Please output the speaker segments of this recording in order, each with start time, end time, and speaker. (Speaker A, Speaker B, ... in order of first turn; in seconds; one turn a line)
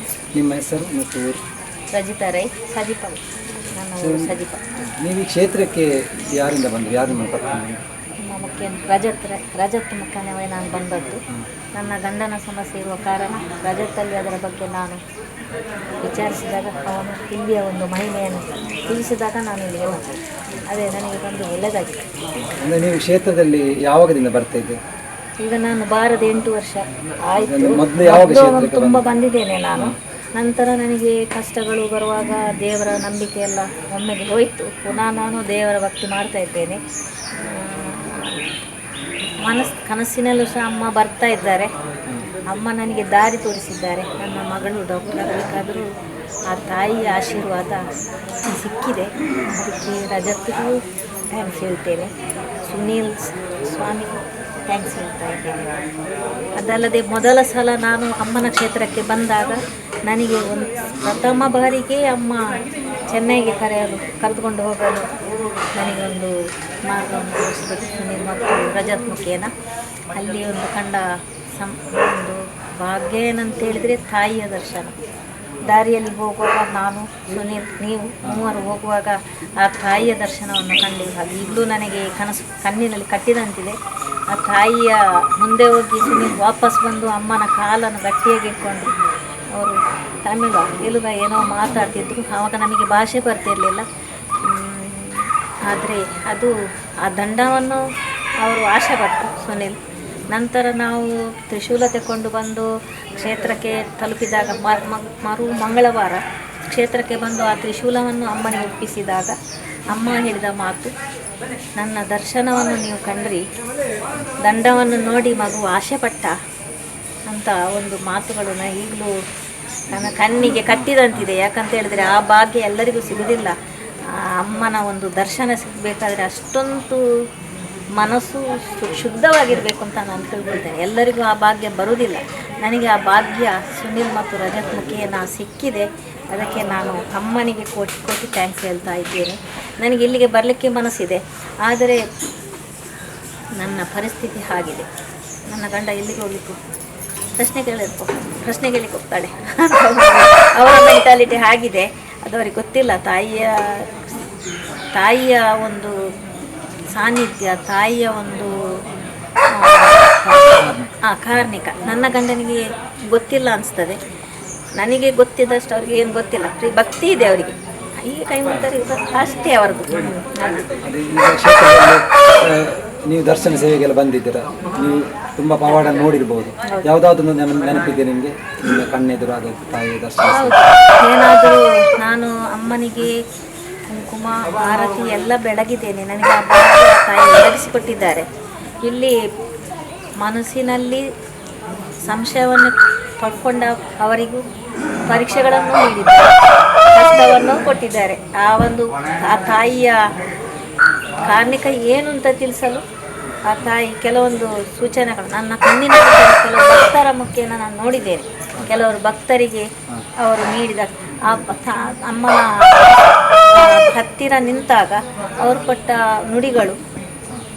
Speaker A: 0.3-1.4
Speaker B: 1.9-3.2
Speaker B: 3.7-4.6
Speaker A: 4.0-7.8
Speaker B: 8.2-11.2
Speaker B: 11.7-15.0
Speaker B: 16.0-20.1
Speaker B: 20.7-22.0
Speaker A: 22.4-24.8
Speaker B: 25.4-36.8
Speaker A: 27.4-29.0
Speaker B: 37.4-38.4
Speaker B: 39.4-41.7
Speaker B: 42.5-45.9
Speaker B: 46.5-47.8
Speaker B: 48.5-50.8
Speaker B: 51.3-52.1
Speaker B: 52.7-55.7
Speaker B: 56.6-65.1
Speaker B: 65.8-66.3
Speaker B: 66.9-69.5
Speaker B: 70.1-71.0
Speaker B: 71.5-74.9
Speaker B: 75.6-83.8
Speaker B: 84.3-88.9
Speaker B: 89.5-93.8
Speaker B: 94.4-97.8
Speaker B: 98.4-99.8
Speaker B: 100.3-109.3
Speaker B: 109.9-110.9
Speaker B: 111.8-113.4
Speaker B: 114.4-116.3
Speaker B: 117.3-119.1
Speaker B: 119.9-123.5
Speaker A: 120.8-121.2
Speaker B: 124.1-127.0
Speaker B: 128.0-142.0
Speaker B: 143.6-144.9
Speaker B: 145.5-146.6
Speaker B: 147.3-153.9
Speaker B: 154.9-155.9
Speaker B: 156.9-158.5
Speaker B: 159.5-164.0
Speaker A: 160.6-160.9
Speaker B: 164.8-170.7
Speaker A: 170.8-180.6
Speaker B: 180.2-183.1
Speaker B: 183.9-188.3
Speaker B: 188.8-189.2
Speaker B: 190.2-191.0
Speaker B: 192.1-194.4
Speaker B: 195.1-196.3
Speaker B: 196.9-200.0
Speaker B: 201.2-202.8
Speaker B: 203.5-209.7
Speaker B: 210.2-212.9
Speaker B: 213.5-216.8